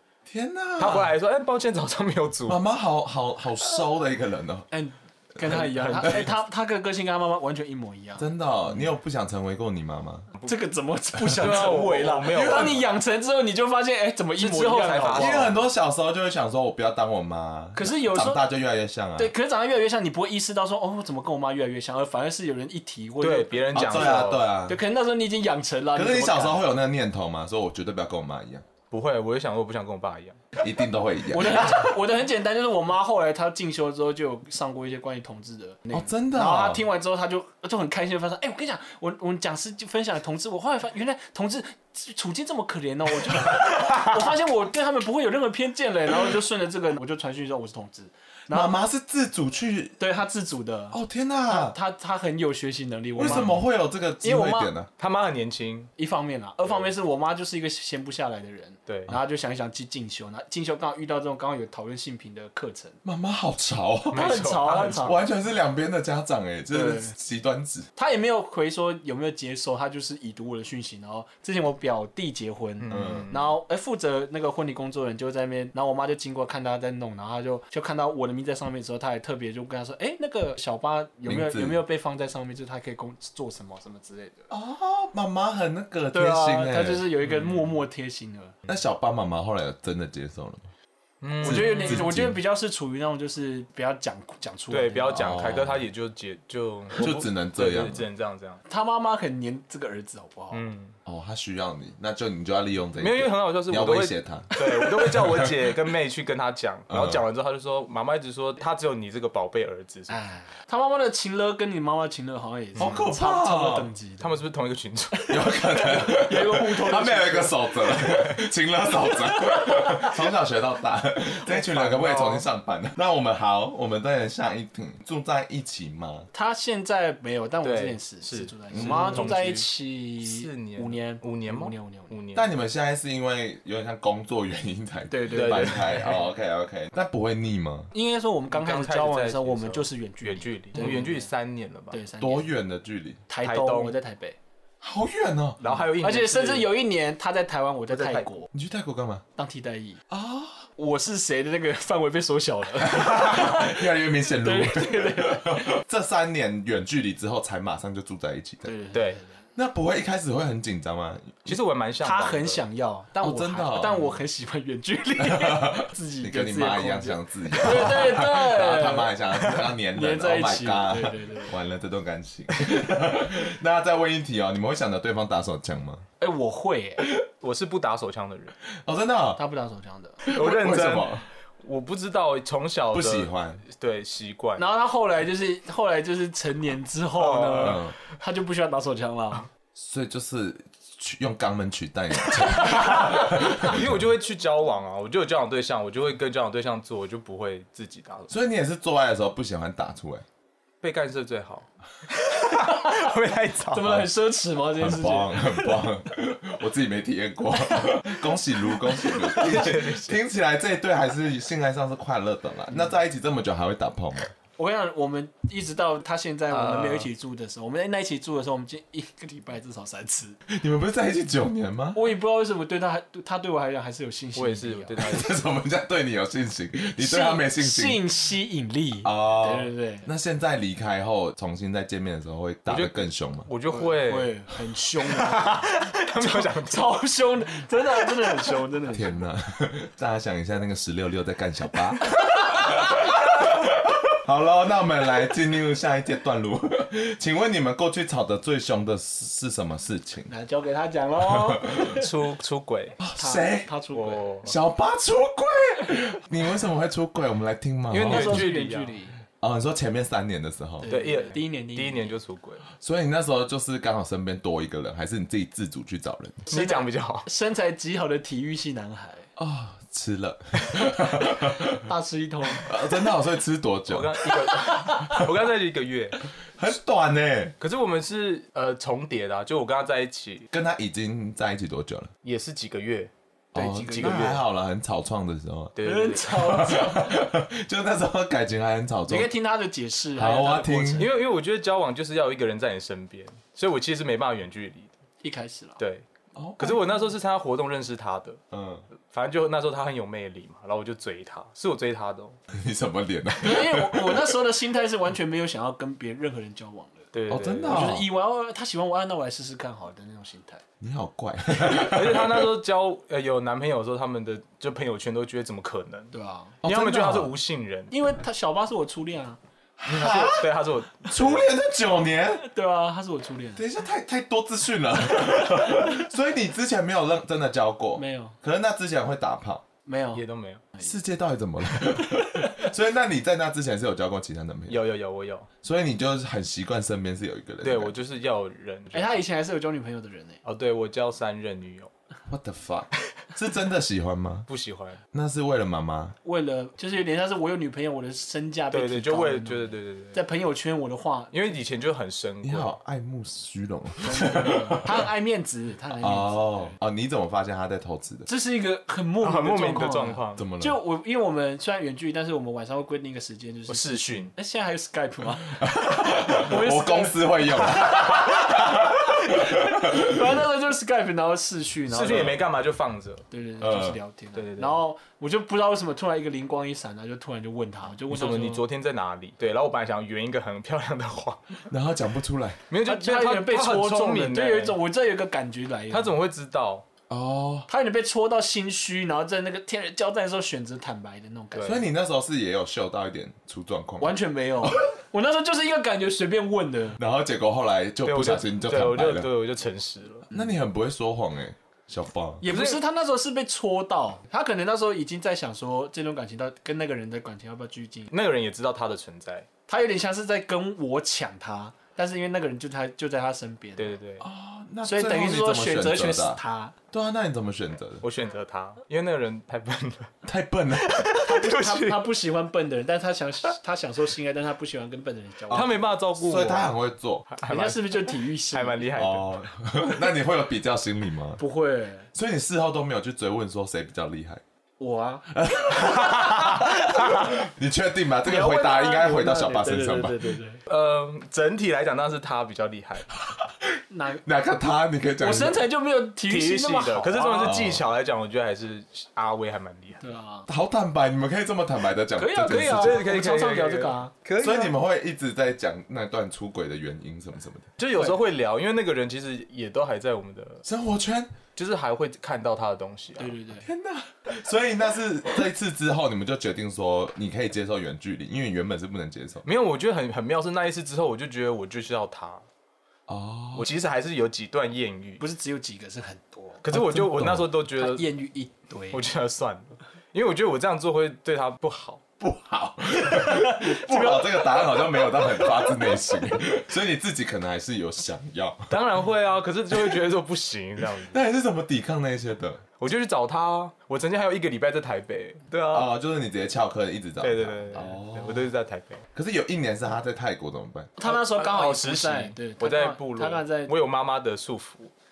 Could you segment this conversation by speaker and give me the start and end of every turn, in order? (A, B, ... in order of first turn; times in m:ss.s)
0:00.3-0:01.1 A
0:00.8-0:02.6 B
0:02.5-0:04.7 A
0:04.7-0:08.3 C
0:05.4-0:06.3 B
0:08.2-0:10.3 A
0:10.4-0:15.5 C
0:11.3-0:12.9 B
0:12.3-0:12.8 A
0:14.4-0:15.6 B
0:15.1-0:19.3 A
0:17.8-0:18.4 C
0:19.2-0:26.6 C
0:23.2-0:24.4 B
0:23.7-0:24.8 A
0:25.9-0:28.6 A
0:28.9-0:30.4 B
0:30.6-0:32.0 A
0:31.3-0:48.8 C
0:35.9-0:36.8 A
0:48.5-0:50.0 A
0:50.0-0:53.6 C
0:50.9-0:51.8 A
0:53.2-0:54.9 A
0:54.2-0:54.7 C
0:55.0-0:55.9 B
0:56.0-1:03.0 C
0:58.9-0:59.1 B
1:03.0-1:07.9 A
1:04.1-1:05.1 B
1:04.1-1:05.2 C
1:06.7-1:07.1 C
1:08.0-1:24.5 C
1:12.8-1:13.5 B
1:12.9-1:13.3 A
1:21.2-1:21.8 A
1:24.5-1:27.1 A
1:26.1-1:28.5 C
1:27.2-1:27.6 B
1:28.7-1:30.7 A
1:31.2-1:32.1 B
1:31.4-1:32.4 A
1:31.4-1:35.3 C
1:34.7-1:38.6 B
1:35.1-1:35.9 A
1:37.0-1:38.0 A
1:38.7-1:40.6 C
1:40.5-1:41.0 B
1:41.0-1:45.7 A
1:43.0-1:50.2 B
1:46.9-1:47.2 A
1:50.1-1:54.4 C
1:52.8-1:53.0 B
1:52.8-1:53.9 A
1:54.2-1:55.3 B
1:55.2-1:57.6 C
1:55.3-2:06.3 A
1:59.5-2:00.0 C
2:01.5-2:02.0 C
2:01.8-2:02.4 B
2:06.3-2:12.2 C
2:07.6-2:12.5 B
2:08.7-2:09.3 A
2:12.3-2:17.9 A
2:15.1-2:15.8 C
2:15.3-2:16.3 B
2:17.9-2:21.2 C
2:18.5-2:22.0 B
2:21.9-2:22.5 C
2:22.2-2:23.2 A
2:23.3-2:24.4 C
2:23.4-2:24.0 B
2:24.8-2:25.6 A
2:25.6-2:26.7 B
2:26.0-2:28.5 C
2:27.9-2:28.3 B
2:28.5-2:29.2 A
2:29.4-2:30.0 C
2:30.1-2:30.7 A
2:30.8-2:35.7 C
2:32.8-2:38.7 A
2:38.6-2:39.3 C
2:38.9-2:39.2 B
2:39.6-2:41.6 A
2:41.5-2:42.6 B
2:42.0-2:49.2 C
2:43.2-2:44.0 A
2:45.2-2:56.0 A
2:49.9-2:51.5 C
2:56.2-2:57.0 C
2:57.4-2:58.5 B
2:58.8-2:59.4 A
2:59.4-3:00.2 C
3:00.2-3:01.2 A
3:00.2-3:04.6 B
3:02.9-3:03.6 A
3:04.6-3:09.5 C
3:07.1-3:07.9 B
3:07.6-3:08.0 A
3:09.8-3:14.0 A
3:12.5-3:18.3 B
3:18.3-3:20.2 A
3:20.8-3:24.0 B
3:23.7-3:25.8 C
3:24.8-3:34.3 A
3:29.1-3:30.1 B
3:34.6-3:40.4 C
3:36.5-3:37.1 B
3:40.5-3:42.1 A
3:42.0-3:45.0 C
3:44.4-3:45.3 B
3:45.0-3:48.0 A
3:47.0-3:50.1 C
3:49.0-3:53.5 A
3:52.7-3:54.4 B
3:53.7-3:59.2 C
3:55.0-3:57.0 B
3:58.9-4:10.3 A
4:10.3-4:11.9 C
4:11.2-4:12.0 A
4:11.8-4:13.0 B
4:13.0-4:13.7 A
4:13.2-4:14.3 C
4:13.9-4:14.5 B
4:14.4-4:18.5 A
4:17.9-4:19.0 B
4:18.0-4:19.2 C
4:19.4-4:20.9 A
4:20.8-4:22.1 C
4:20.9-4:22.6 B
4:22.8-4:26.4 A
4:26.5-4:29.3 C
4:26.5-4:27.3 B
4:29.4-4:31.8 A
4:31.8-4:32.8 C
4:32.6-4:34.4 A
4:33.9-4:36.2 B
4:34.7-4:35.2 C
4:36.6-4:37.5 A
4:37.6-4:40.5 B
4:40.5-4:42.1 A
4:42.2-4:43.1 B
4:43.5-4:45.8 A
4:43.5-4:44.4 C
4:43.9-4:44.4 B
4:45.8-4:46.6 B
4:45.8-4:47.1 C
4:46.3-4:49.3 A
4:49.1-4:51.1 C
4:50.2-4:51.1 A
4:51.0-4:54.9 B
4:55.2-4:55.8 C
4:55.8-4:56.0 B
4:56.4-4:57.0 A
4:56.6-4:58.4 B
4:58.5-4:58.8 A
4:59.1-5:02.4 B
5:02.5-5:04.4 A
5:03.4-5:07.1 C
5:07.1-5:08.0 B
5:07.3-5:08.1 A
5:07.7-5:10.6 C
5:10.8-5:12.5 A
5:11.6-5:16.1 B
5:16.1-5:16.6 C
5:16.6-5:17.3 A
5:16.6-5:17.9 B
5:17.9-5:19.4 C
5:19.8-5:20.5 A
5:19.9-5:21.5 B
5:21.1-5:22.5 A
5:22.4-5:23.6 C
5:23.6-5:29.6 A
5:28.0-5:28.4 C
5:29.9-5:30.2 C
5:30.1-5:30.6 B
5:30.8-5:34.8 A
5:34.7-5:35.5 B
5:35.6-5:38.0 A
5:37.6-5:39.2 B
5:38.9-5:40.4 C
5:40.4-5:41.9 B
5:42.3-5:44.5 A
5:44.5-5:45.0 B
5:45.1-5:46.2 A
5:46.2-5:51.5 C
5:48.7-5:50.2 B
5:51.3-5:52.8 B
5:52.4-5:55.0 A
5:54.0-5:56.8 C
5:56.0-5:58.3 A
5:58.3-6:12.4 C
5:59.2-6:00.5 B
6:00.4-6:00.8 A
6:03.7-6:04.3 B
6:05.5-6:10.4 A
6:11.9-6:13.2 B
6:13.3-6:18.6 C
6:13.6-6:14.0 A
6:14.4-6:14.8 B
6:18.1-6:21.6 B
6:21.7-6:22.6 A
6:22.7-6:24.8 B
6:22.8-6:26.1 C
6:25.9-6:26.8 B
6:27.1-6:27.7 A
6:27.7-6:31.9 C
6:31.5-6:31.8 B
6:31.6-6:34.9 A
6:34.0-6:37.0 C
6:37.0-6:39.3 A
6:38.0-6:40.3 B
6:40.3-6:42.4 A
6:42.4-6:48.1 C
6:42.4-6:42.8 B
6:48.1-6:49.5 B
6:49.7-6:54.0 C
6:53.8-6:54.3 B
6:54.2-6:56.4 A
6:54.8-6:56.8 C
6:56.9-6:58.0 A
6:58.0-7:00.1 B
7:00.2-7:01.1 A
7:00.8-7:02.1 B
7:01.1-7:05.8 C
7:05.5-7:06.7 B
7:05.5-7:07.2 A
7:07.3-7:09.4 B
7:07.5-7:08.9 C
7:08.9-7:11.4 A
7:11.4-7:12.1 C
7:12.1-7:14.4 A
7:14.8-7:15.2 C
7:15.3-7:20.4 A
7:15.8-7:16.7 B
7:18.2-7:20.6 C
7:20.7-7:23.1 B
7:23.2-7:23.7 A
7:23.9-7:24.2 C
7:24.2-7:25.6 A
7:25.2-7:27.6 C
7:26.2-7:30.0 B
7:27.4-7:27.8 A
7:30.0-7:30.5 C
7:30.5-7:33.0 A
7:32.2-7:34.1 C
7:32.5-7:34.8 B
7:34.4-7:37.7 A
7:37.8-7:40.6 B
7:40.6-7:41.4 A
7:41.6-7:43.4 B
7:43.2-7:43.7 C
7:43.6-7:49.4 A
7:49.4-7:52.4 B
7:53.1-7:53.7 A
7:53.5-7:55.2 B
7:55.2-7:56.6 C
7:56.6-7:58.1 B
7:56.7-7:57.5 A
7:57.8-7:59.0 C
7:58.9-8:02.0 B
8:02.2-8:08.8 A
8:03.1-8:05.0 C
8:08.7-8:11.2 B
8:10.9-8:12.6 A
8:12.8-8:15.9 B
8:15.7-8:18.5 A
8:17.2-8:19.0 B
8:19.1-8:20.9 A
8:21.0-8:23.7 C
8:21.0-8:24.9 B